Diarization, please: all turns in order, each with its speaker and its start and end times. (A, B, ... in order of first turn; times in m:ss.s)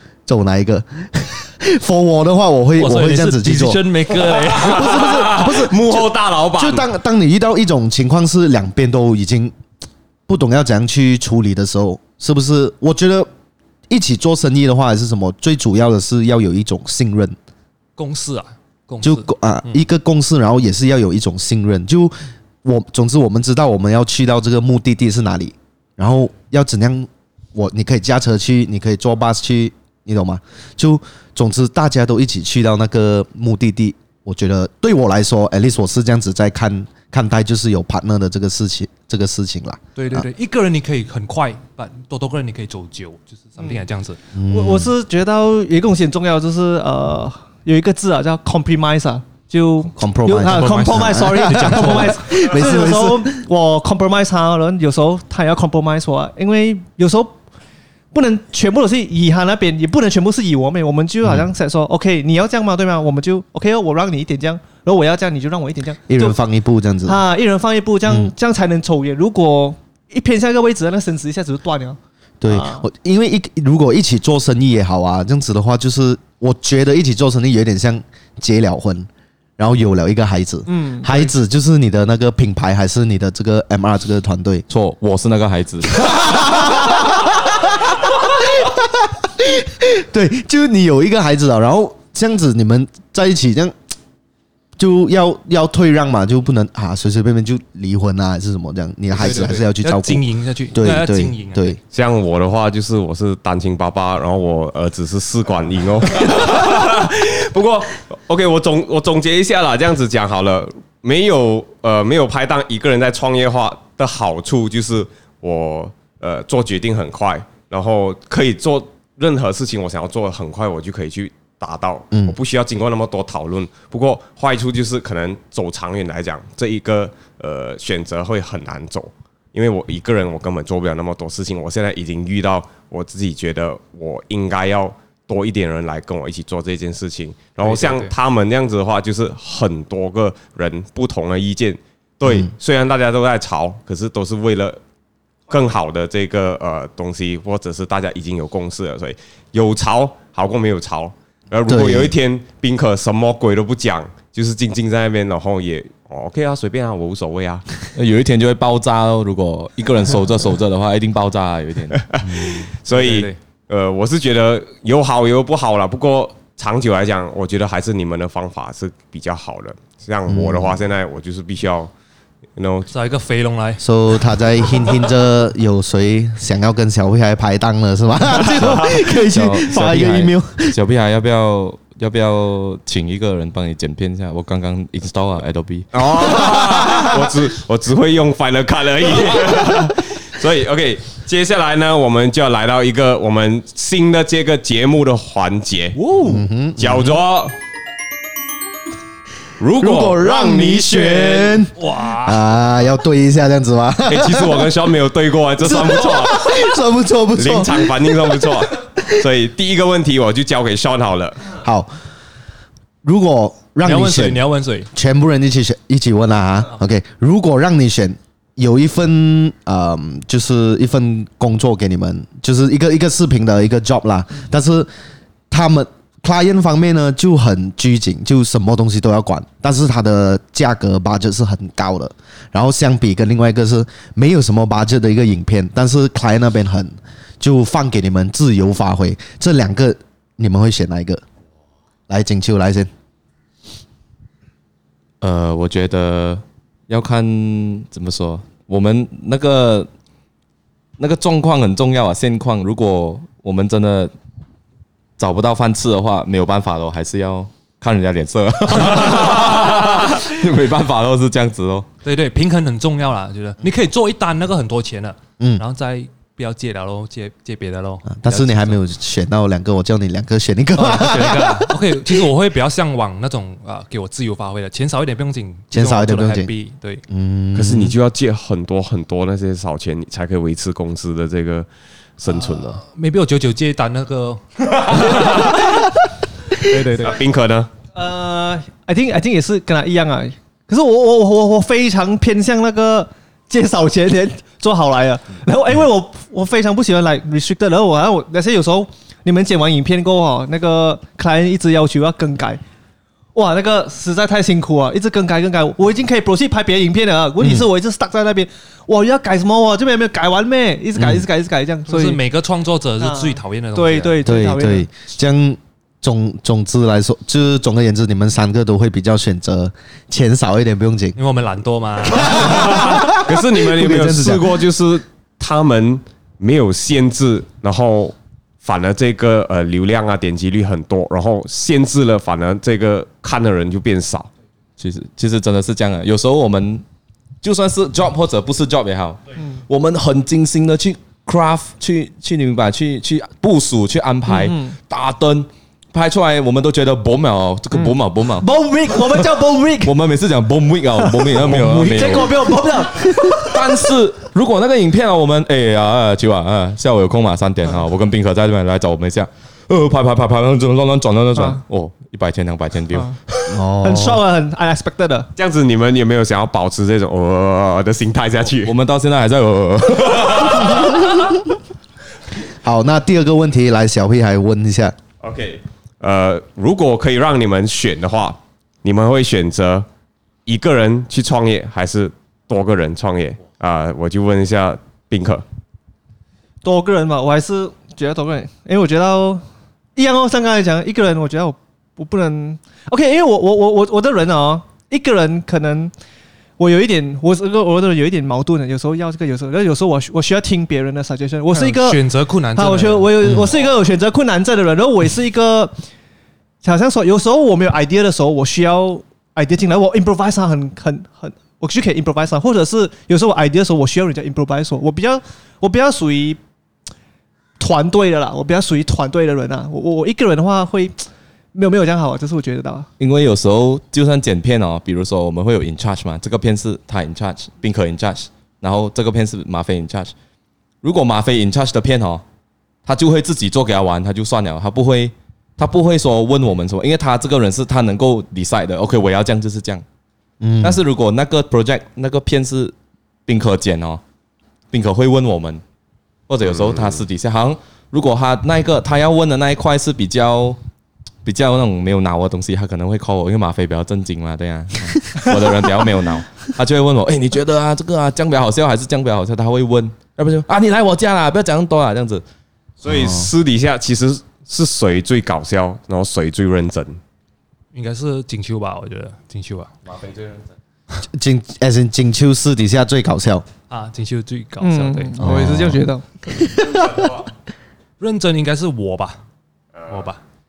0:00.3-0:03.8 A
0:02.8-0:05.3 B
0:04.5-0:09.5 A
0:04.6-0:06.9 C
0:10.3-0:13.3 A
0:13.9-0:17.4 A
0:18.0-0:19.8 B
0:19.0-0:40.3 A
0:40.0-0:44.2 B
0:44.3-0:44.9 A
0:44.5-0:57.4 D
0:50.0-0:53.4 A
0:50.4-0:52.2 B
0:58.1-1:06.4 D
1:06.1-1:07.2 A
1:07.0-1:12.8 D
1:08.1-1:08.3 A
1:12.4-1:24.7 A
1:20.7-1:21.3 D
1:24.7-1:26.6 E
1:26.0-1:33.8 A
1:34.8-1:41.8 A
1:39.1-1:41.7 B
1:41.9-2:24.8 C
2:17.6-2:18.1 B
2:25.5-2:37.6 C
2:31.7-2:32.2 A
2:38.0-2:42.0 E
2:42.0-2:51.9 C
2:42.2-2:42.6 A
2:42.9-2:43.4 B
2:50.3-2:50.8 A
2:52.6-2:52.9 C
2:52.9-2:53.8 B
2:53.8-3:00.8 A
2:58.6-3:05.9 E
3:05.9-3:16.0 C
3:06.3-3:07.2 A
3:16.0-3:16.4 B
3:16.2-3:17.2 A
3:16.8-3:17.6 C
3:19.6-3:21.6 C
3:19.8-3:24.7 A
3:21.8-3:22.5 B
3:24.1-3:26.6 C
3:25.6-3:28.5 A
3:27.4-3:31.4 C
3:31.6-3:31.9 A
3:33.0-3:34.4 A
3:33.8-3:34.9 B
3:34.9-3:44.9 A
3:45.5-4:01.2 A
4:02.1-4:02.9 A
4:05.2-4:09.9 E
4:11.0-4:14.1 E
4:15.2-4:21.9 E
4:22.0-4:28.8 B
4:28.1-4:31.9 A
4:30.8-4:37.0 B
4:35.7-4:36.5 A
4:37.1-4:38.0 A
4:37.5-4:42.8 C
4:42.3-4:45.9 B
4:46.6-4:47.2 B
4:47.0-4:47.7 C
4:47.9-5:02.6 D
5:03.4-5:12.2 D
5:07.4-5:07.7 A
5:11.0-5:11.3 A
5:11.9-5:14.2 B
5:13.0-5:14.9 D
5:14.2-5:21.2 A
5:21.2-5:23.0 B
5:22.1-5:24.5 A
5:22.6-5:34.3 C
5:34.8-5:36.8 E
5:37.4-5:52.6 E
5:44.3-5:44.8 D
5:47.7-5:50.0 D
5:51.0-5:53.9 D
5:53.4-6:03.6 E
6:01.4-6:01.6 D
6:03.5-6:04.2 A
6:03.8-6:05.3 D
6:05.4-6:08.7 C
6:08.6-6:11.2 E
6:10.8-6:11.3 A
6:12.6-6:15.0 A
6:15.2-6:19.9 C
6:20.5-6:25.4 C
6:26.6-6:29.4 D
6:30.0-6:35.9 D
6:36.6-6:42.0 D
6:41.5-6:43.2 B
6:42.6-6:45.7 D
6:43.2-6:43.5 A
6:46.6-6:56.4 D
6:57.6-7:01.0 D
7:01.5-7:02.9 D
7:03.0-7:10.1 E
7:10.8-7:12.2 E
7:12.8-7:19.8 E
7:20.4-7:20.8 A
7:20.6-7:22.7 E
7:23.3-7:24.0 E
7:24.7-7:25.6 E
7:26.3-7:30.6 E
7:26.4-7:27.0 C
7:31.2-7:42.2 E
7:42.8-7:47.0 C
7:42.9-7:43.3 A
7:47.7-7:49.7 B
7:49.9-7:50.5 E
7:51.1-7:53.4 A
7:53.7-7:55.3 B
7:54.6-7:56.7 D
7:55.2-7:55.8 A
7:56.7-7:57.2 C
7:58.0-7:59.2 B
7:59.8-8:00.0 C
7:59.9-8:00.2 B